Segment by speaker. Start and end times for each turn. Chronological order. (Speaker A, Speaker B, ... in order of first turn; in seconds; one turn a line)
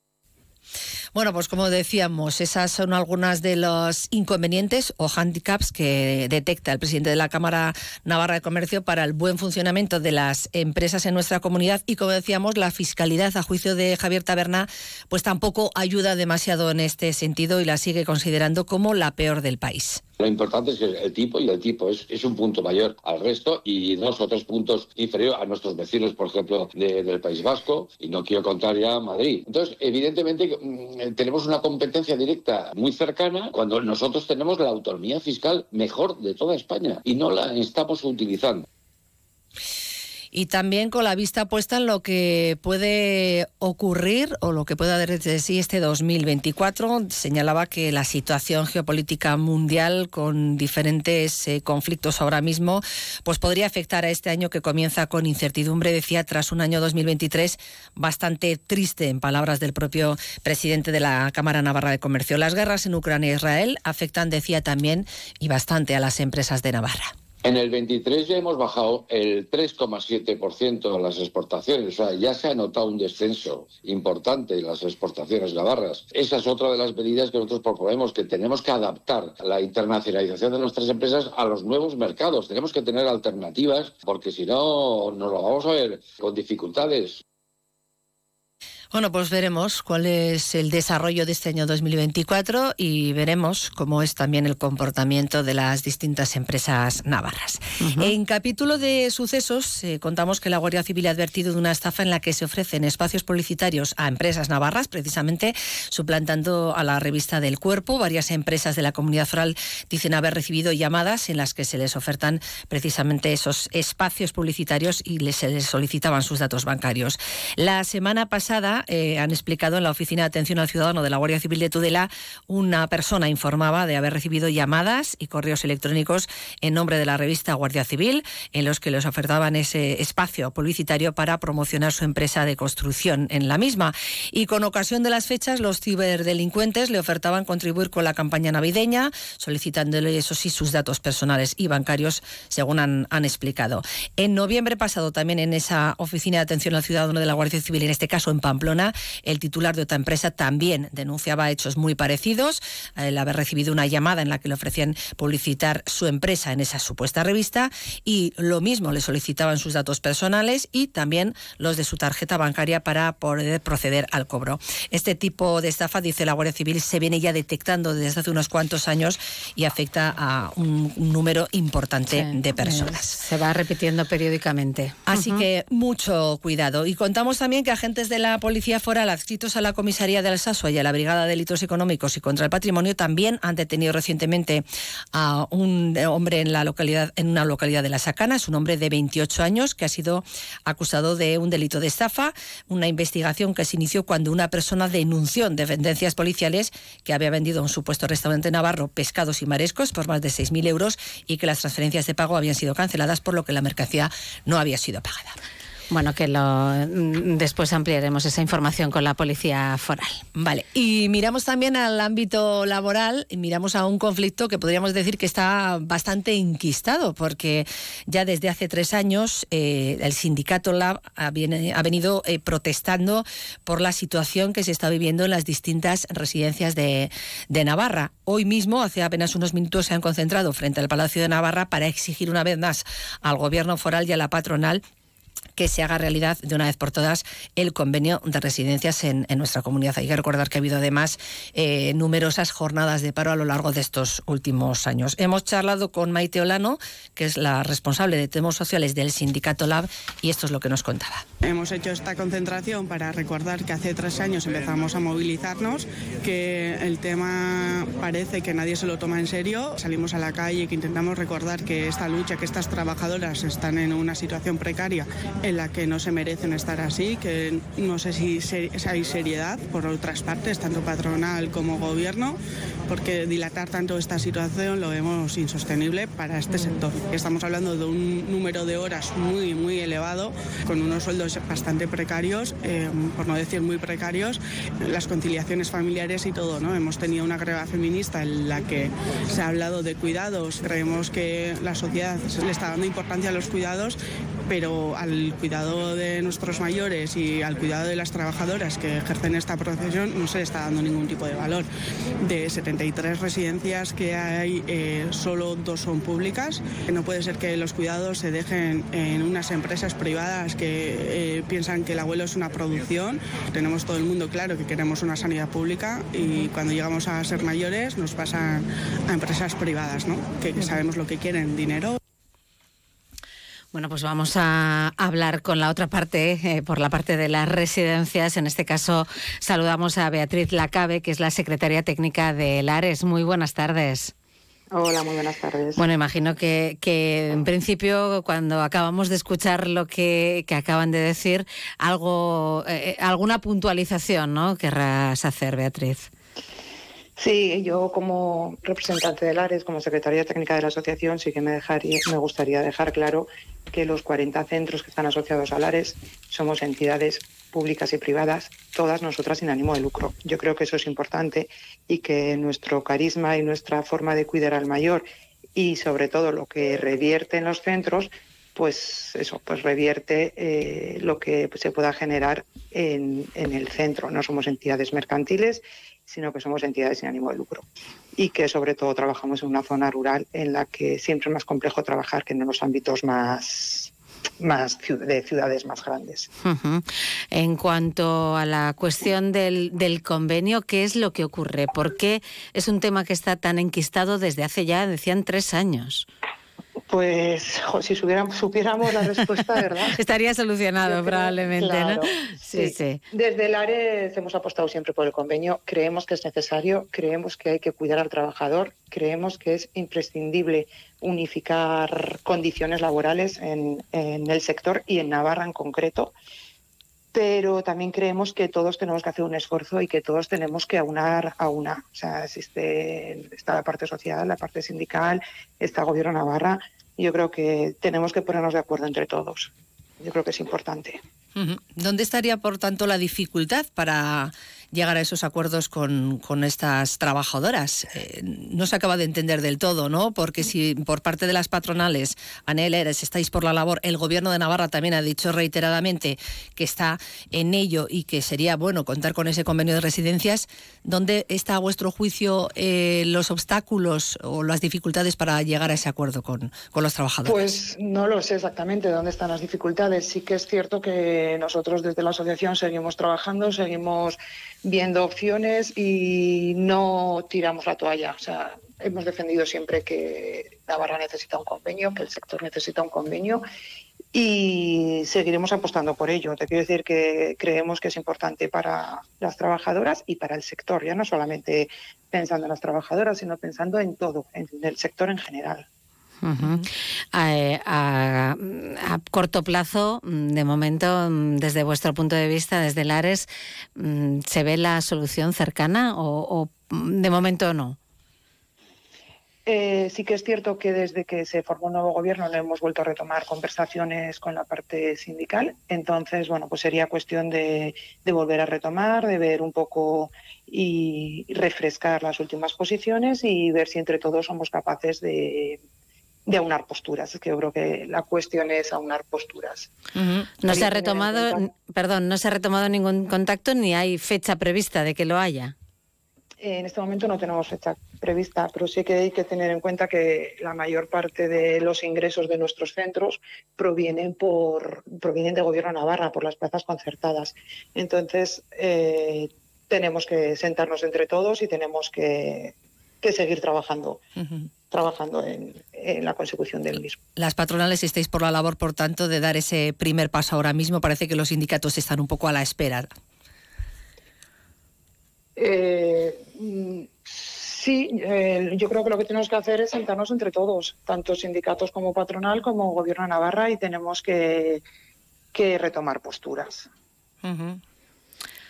Speaker A: 1.1-20.0
Speaker B: 20.2-38.6
Speaker A: 40.3-67.1
Speaker B: 67.4-87.2
Speaker A: 88.9-173.2
Speaker C: 97.8-98.1
Speaker C: 172.1-175.4
Speaker A: 175.1-205.4
Speaker C: 205.9-210.2
Speaker A: 210.4-234.8
Speaker A: 235.6-251.2
Speaker D: 251.4-301.7
Speaker D: 302.2-322.0
Speaker C: 323.7-334.1
Speaker E: 334.7-335.8
Speaker C: 335.8-346.1
Speaker E: 347.2-365.1
Speaker E: 365.6-377.6
Speaker E: 378.2-386.3
Speaker C: 386.4-396.1
Speaker E: 396.9-400.0
Speaker C: 399.9-403.0
Speaker E: 400.8-416.1
Speaker E: 417.1-429.5
Speaker E: 430.0-431.0
Speaker A: 431.4-457.6
Speaker E: 457.2-473.4
Speaker E: 474.1-485.7
Speaker C: 486.2-497.8
Speaker E: 499.5-515.6
Speaker E: 516.3-521.5
Speaker C: 520.4-525.5
Speaker E: 526.4-544.0
Speaker E: 544.7-547.0
Speaker A: 547.2-552.9
Speaker E: 555.4-564.6
Speaker E: 565.3-566.7
Speaker A: 567.2-567.6